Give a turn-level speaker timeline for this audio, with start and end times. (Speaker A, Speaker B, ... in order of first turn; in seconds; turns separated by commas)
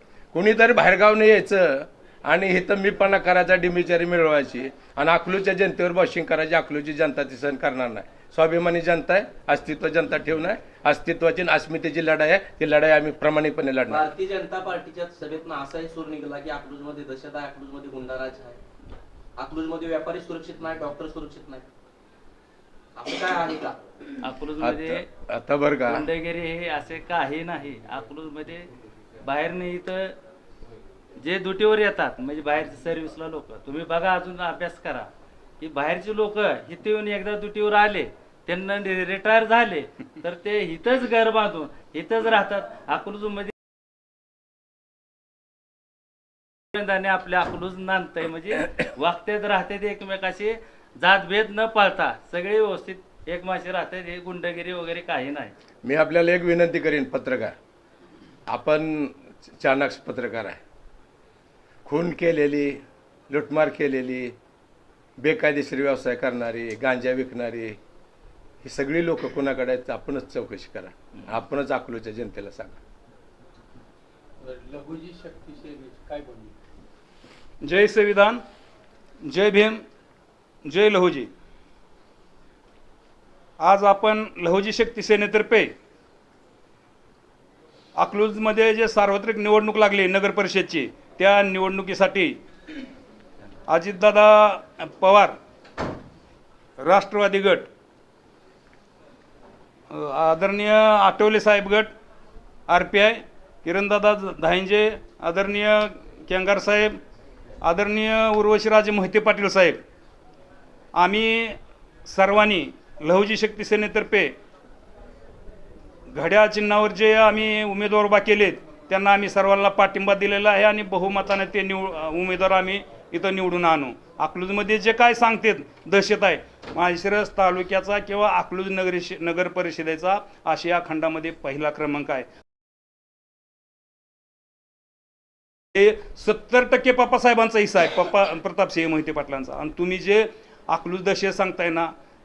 Speaker A: 0.3-14.1, Speaker B: 13.9-18.6, Speaker B: 19.4-21.7, Speaker B: 22.9-23.8, Speaker C: 24.2-25.1, Speaker A: 24.6-26.1, Speaker C: 25.9-28.7, Speaker C: 29.2-30.1, Speaker C: 31.2-35.1, Speaker C: 35.6-43.5, Speaker C: 46.7-55.5, Speaker A: 55.8-57.5, Speaker A: 58.5-60.6, Speaker A: 61.8-64.3, Speaker A: 65.2-67.8, Speaker A: 68.6-72.8, Speaker D: 74.4-76.6, Speaker E: 77.6-78.4, Speaker E: 79.2-79.8, Speaker E: 80.6-81.3, Speaker E: 83.6-85.7, Speaker E: 88.0-92.4, Speaker E: 93.7-95.3, Speaker E: 96.8-97.7, Speaker E: 99.9-101.9, Speaker E: 102.7-107.0, Speaker E: 107.6-109.8, Speaker E: 110.9-114.3, Speaker E: 116.1-132.3, Speaker E: 135.7-141.9